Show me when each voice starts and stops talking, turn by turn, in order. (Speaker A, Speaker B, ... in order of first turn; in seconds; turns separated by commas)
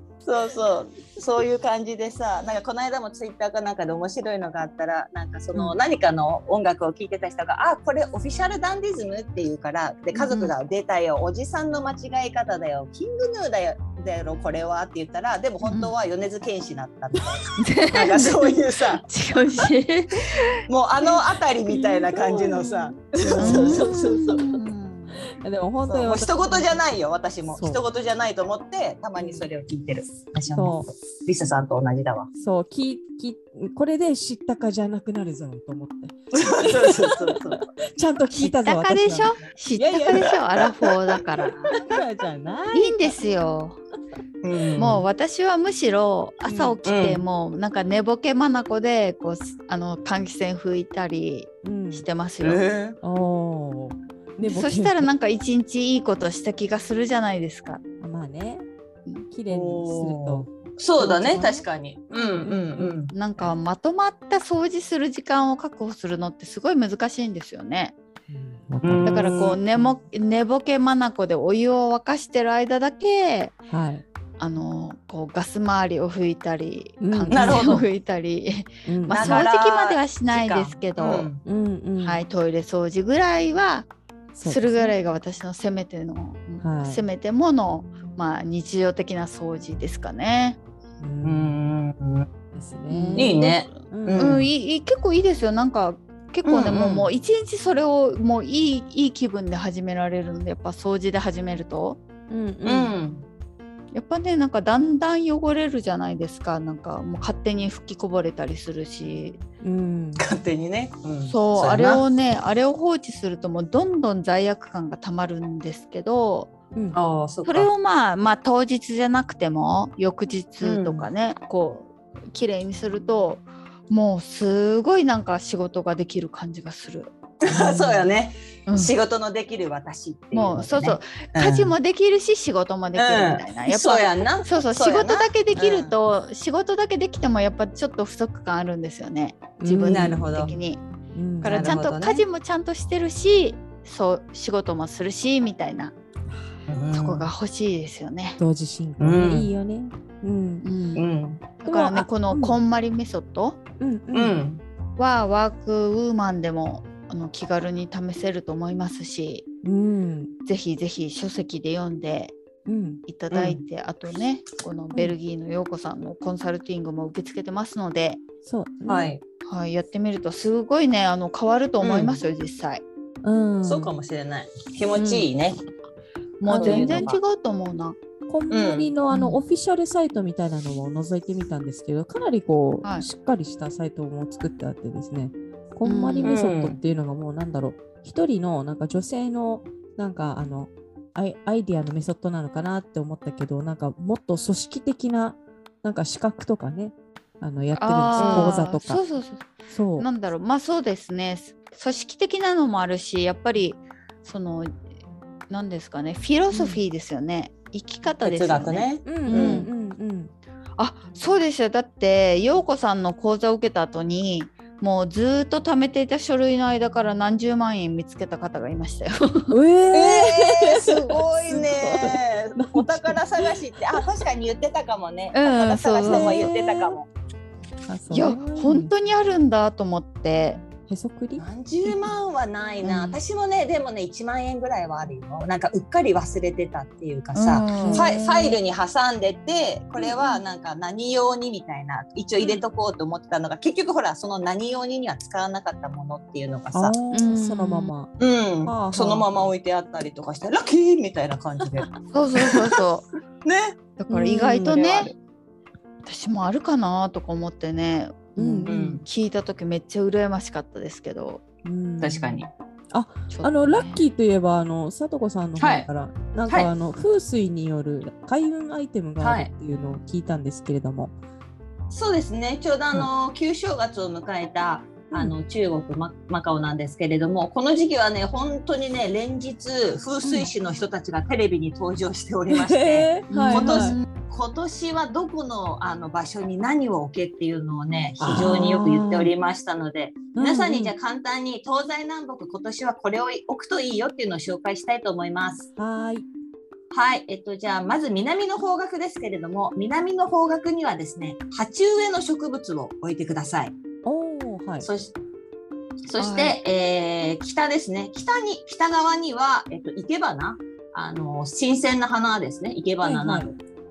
Speaker A: 0.2-19.0, Speaker B: 10.1-10.5, Speaker B: 15.6-15.9, Speaker B: 17.6-20.5, Speaker A: 20.7-24.6, Speaker C: 21.7-24.1, Speaker B: 23.4-25.2, Speaker C: 25.2-26.8, Speaker A: 25.9-32.3, Speaker C: 27.5-27.8, Speaker C: 30.5-30.9, Speaker C: 32.4-40.4, Speaker A: 36.3-37.6, Speaker B: 38.3-41.7, Speaker C: 41.7-43.1, Speaker B: 42.7-43.8, Speaker A: 44.4-45.0, Speaker B: 44.8-52.6, Speaker C: 46.4-46.8, Speaker A: 46.9-47.2, Speaker C: 51.6-52.0, Speaker A: 52.4-53.0, Speaker C: 53.0-55.1, Speaker B: 54.4-57.8, Speaker C: 58.0-58.6, Speaker C: 59.3-61.6, Speaker A: 59.5-63.1, Speaker C: 62.4-63.5, Speaker B: 63.1-67.9, Speaker C: 68.3-69.5, Speaker A: 68.8-69.6, Speaker B: 69.0-73.6, Speaker C: 73.7-74.0, Speaker B: 74.4-81.3, Speaker C: 77.0-77.8, Speaker A: 77.3-77.9, Speaker C: 78.8-79.4, Speaker A: 79.1-81.4, Speaker C: 81.4-82.2, Speaker B: 82.0-83.9, Speaker C: 84.3-84.9, Speaker B: 84.4-90.6, Speaker C: 86.6-87.0, Speaker C: 91.0-91.5, Speaker A: 91.2-92.3, Speaker C: 92.5-94.4, Speaker B: 92.9-102.0, Speaker A: 93.2-94.5, Speaker A: 96.4-97.1, Speaker C: 102.3-102.9, Speaker A: 102.6-103.2, Speaker B: 103.9-109.4, Speaker C: 109.6-110.2, Speaker A: 110.2-112.0, Speaker B: 111.3-116.5, Speaker A: 116.9-117.7, Speaker B: 117.4-128.1, Speaker A: 120.6-121.1, Speaker A: 127.4-131.7, Speaker B: 128.7-128.9, Speaker B: 130.3-140.8, Speaker A: 132.9-135.9, Speaker C: 139.6-140.6, Speaker A: 139.7-140.5, Speaker C: 141.1-141.8, Speaker B: 141.4-145.9, Speaker A: 141.4-142.2, Speaker A: 146.7-147.3, Speaker B: 146.9-148.4, Speaker C: 148.4-150.7, Speaker A: 149.0-149.5, Speaker B: 150.6-151.1, Speaker A: 150.9-151.4, Speaker B: 151.6-153.6, Speaker C: 151.6-152.6, Speaker C: 153.8-154.4, Speaker A: 154.1-154.6, Speaker B: 155.0-159.4, Speaker C: 159.6-160.3, Speaker B: 160.4-162.3, Speaker C: 162.7-163.0, Speaker B: 163.1-168.2, Speaker A: 163.3-163.6, Speaker C: 168.4-169.1, Speaker A: 168.8-169.2, Speaker B: 169.4-172.8, Speaker A: 171.8-172.2, Speaker C: 173.2-173.9, Speaker A: 173.6-175.6, Speaker B: 176.4-178.0, Speaker C: 176.4-177.1, Speaker A: 176.5-177.2, Speaker C: 178.3-199.0, Speaker A: 178.5-178.9, Speaker B: 179.1-179.4, Speaker B: 185.8-186.4, Speaker A: 186.2-186.8, Speaker B: 197.8-204.8, Speaker A: 198.2-198.6, Speaker C: 199.7-200.1, Speaker B: 205.5-209.7, Speaker A: 208.2-209.7, Speaker C: 209.1-210.3, Speaker B: 210.8-219.6, Speaker C: 219.5-223.5, Speaker A: 219.9-227.1, Speaker B: 225.3-226.4, Speaker C: 226.1-226.9, Speaker C: 227.9-228.9, Speaker B: 228.1-230.6, Speaker C: 230.9-231.5, Speaker A: 231.4-246.9, Speaker B: 232.8-233.2, Speaker B: 237.3-238.1, Speaker C: 237.7-238.6, Speaker B: 240.1-240.3, Speaker C: 246.7-248.1, Speaker B: 247.1-247.9, Speaker A: 248.2-252.7, Speaker C: 248.7-249.3, Speaker B: 252.1-253.0, Speaker A: 253.4-253.8, Speaker B: 254.0-255.1, Speaker C: 254.1-254.8, Speaker A: 254.6-255.1, Speaker B: 256.0-261.4, Speaker C: 258.4-258.7, Speaker A: 258.7-259.0, Speaker C: 261.6-271.1, Speaker A: 262.0-262.5, Speaker B: 263.3-264.0, Speaker A: 265.6-265.9, Speaker A: 269.2-269.5, Speaker A: 271.9-295.7, Speaker C: 280.2-280.5, Speaker C: 282.5-283.9, Speaker B: 283.3-284.0, Speaker C: 288.2-289.3, Speaker C: 290.3-290.9, Speaker C: 295.8-296.3, Speaker A: 296.9-303.7, Speaker C: 304.0-304.9, Speaker A: 304.8-305.1, Speaker A: 306.1-313.5, Speaker B: 306.2-306.6, Speaker C: 313.0-313.5